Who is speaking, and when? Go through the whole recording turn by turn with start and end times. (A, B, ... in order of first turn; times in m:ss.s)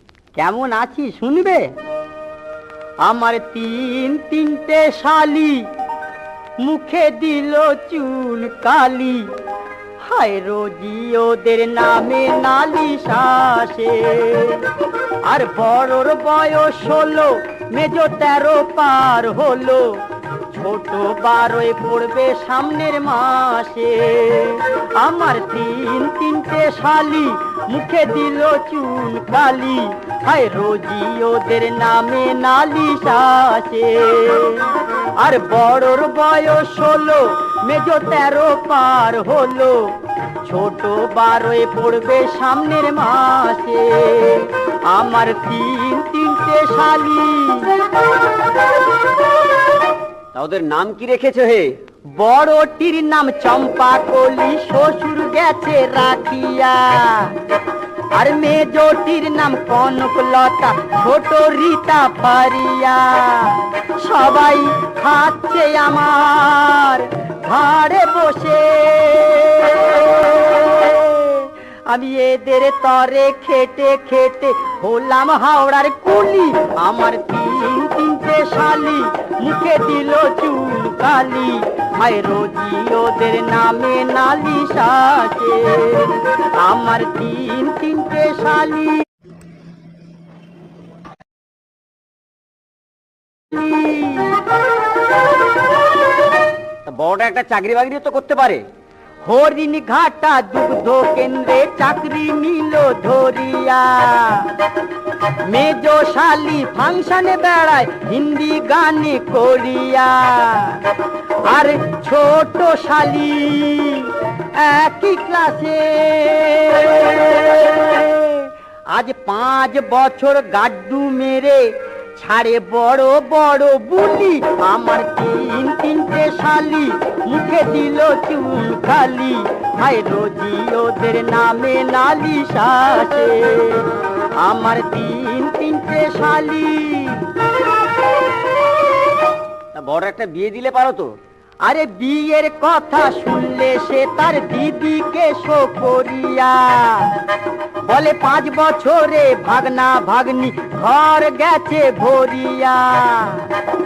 0:00.4-0:01.7 A
0:03.0-0:05.6 A
0:06.6-0:09.3 A
0:10.0-0:14.7 A
0:15.3-0:20.0 A
0:20.5-0:34.7 A
0:35.2-0:39.9 A
0:40.4-0:47.8 A
0:50.3-0:51.7 B
0:52.2-0:57.4 A
0:58.2-1:29.0 A
1:33.5-1:34.4 A
1:36.8-1:38.6 B
1:39.2-1:44.5 A
1:45.4-1:50.8 A
1:51.4-2:13.9 A
2:14.4-2:17.3 A
2:19.7-2:21.1 B
2:21.6-2:27.2 A
2:27.8-2:33.5 A